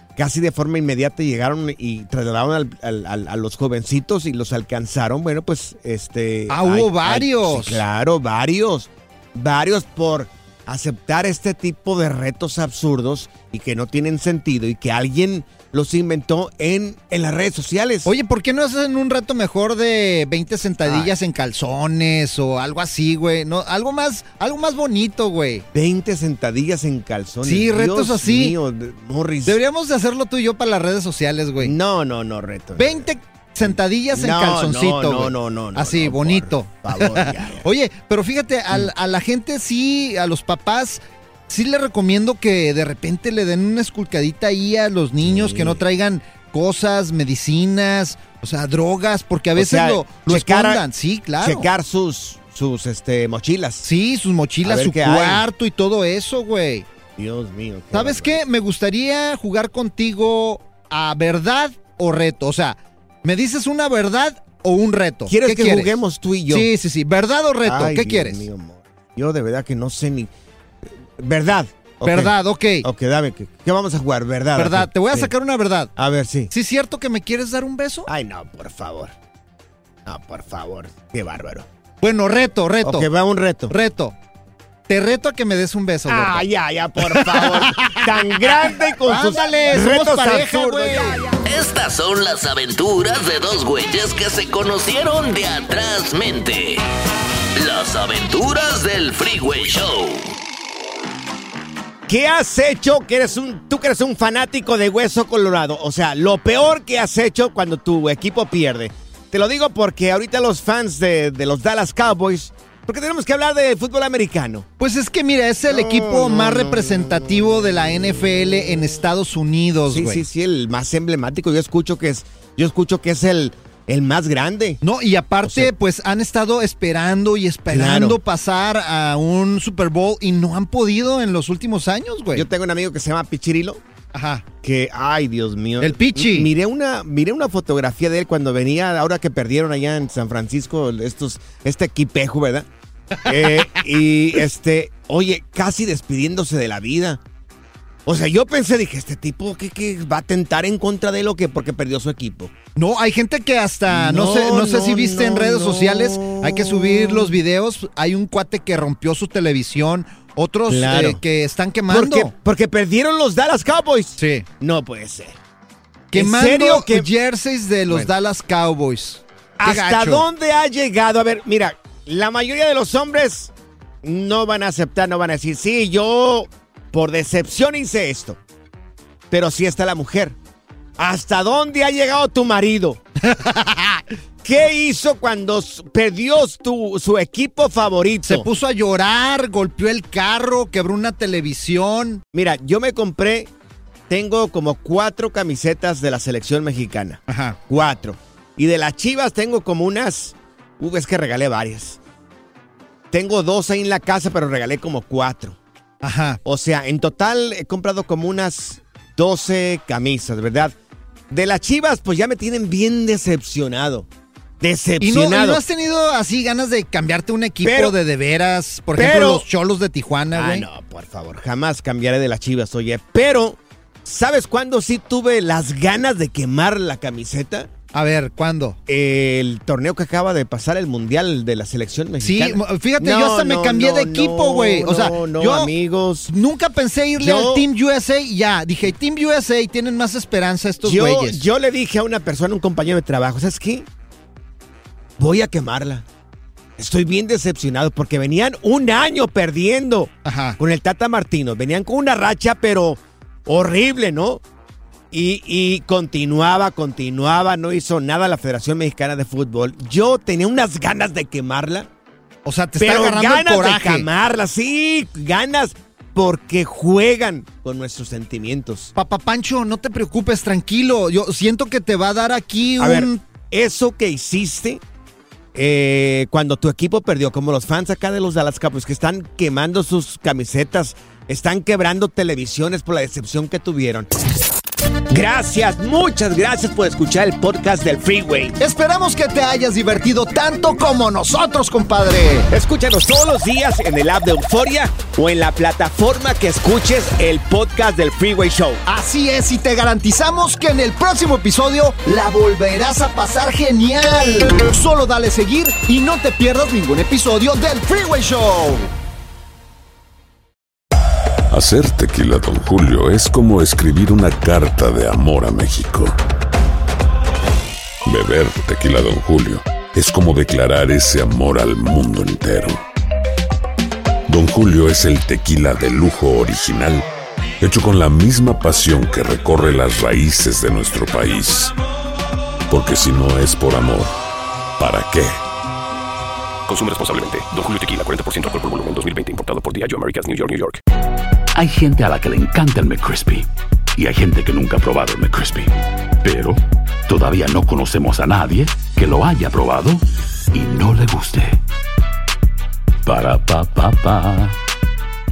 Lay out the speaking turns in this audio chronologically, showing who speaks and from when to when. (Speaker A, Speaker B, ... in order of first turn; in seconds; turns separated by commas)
Speaker A: 0.2-18.1, Speaker B: 6.5-7.8, Speaker B: 18.1-25.6, Speaker A: 20.9-21.1, Speaker A: 25.7-29.6, Speaker B: 27.4-28.6, Speaker B: 29.4-31.7, Speaker A: 31.6-33.1, Speaker B: 32.8-51.7, Speaker A: 33.6-37.6, Speaker A: 45.2-45.8, Speaker A: 49.6-50.8, Speaker A: 51.4-53.9, Speaker B: 53.8-56.9, Speaker A: 54.6-55.4, Speaker A: 57.2-58.4, Speaker B: 57.9-65.9, Speaker A: 65.3-66.7, Speaker B: 66.5-68.5, Speaker A: 67.7-70.3, Speaker A: 71.2-75.3, Speaker B: 72.0-72.9, Speaker B: 74.6-75.9, Speaker A: 76.0-76.5, Speaker B: 76.5-78.1, Speaker A: 78.1-79.1, Speaker A: 80.1-81.7, Speaker B: 82.0-83.1, Speaker A: 82.8-83.7, Speaker B: 83.7-84.1, Speaker B: 84.9-86.5, Speaker A: 86.1-91.2, Speaker B: 87.1-91.2, Speaker C: 91.5-96.8, Speaker C: 97.6-100.3, Speaker A: 102.1-114.7, Speaker B: 114.8-120.2, Speaker A: 115.7-117.2, Speaker A: 119.9-124.8, Speaker B: 124.8-132.5, Speaker A: 125.5-125.7, Speaker A: 127.7-128.2, Speaker A: 132.4-133.8, Speaker B: 134.1-134.4, Speaker A: 134.6-142.7, Speaker B: 135.8-136.5, Speaker A: 143.2-147.2, Speaker A: 148.1-152.5, Speaker B: 152.8-162.3, Speaker A: 153.9-157.4, Speaker A: 160.7-161.2, Speaker A: 161.9-165.4, Speaker B: 164.2-164.5, Speaker B: 166.1-170.2, Speaker A: 166.1-167.1, Speaker A: 169.6-173.5, Speaker A: 174.0-178.4, Speaker A: 179.3-180.3, Speaker A: 181.0-183.0, Speaker B: 183.2-184.0, Speaker A: 184.4-188.5, Speaker B: 188.3-192.2, Speaker A: 192.3-193.5, Speaker A: 194.1-202.0, Speaker B: 197.3-197.6, Speaker A: 203.1-205.6, Speaker B: 206.0-206.4, Speaker A: 206.4-210.7, Speaker A: 211.3-214.1, Speaker A: 214.6-215.6, Speaker B: 215.0-220.7, Speaker A: 217.6-218.0, Speaker A: 219.0-219.4, Speaker A: 220.3-227.7, Speaker B: 227.9-228.8, Speaker A: 228.9-236.3, Speaker B: 232.2-235.7, Speaker B: 236.3-241.4, Speaker A: 237.2-237.7, Speaker A: 240.8-243.9, Speaker A: 245.2-246.1, Speaker A: 246.8-254.4, Speaker B: 250.2-250.6, Speaker A: 255.1-261.9, Speaker B: 262.4-264.1, Speaker A: 262.8-268.9, Speaker B: 268.9-273.2, Speaker A: 272.8-274.8, Speaker A: 275.6-284.1, Speaker A: 285.1-288.6, Speaker B: 288.6-292.5, Speaker A: 292.5-298.8, Speaker B: 298.9-308.9, Speaker D: 311.5-316.2, Speaker D: 318.0-322.8, Speaker D: 324.3-327.1, Speaker D: 327.6-331.8, Speaker D: 332.7-334.1, Speaker D: 334.8-335.4, Speaker E: 336.7-340.8, Speaker F: 341.5-351.6, Speaker F: 353.1-354.6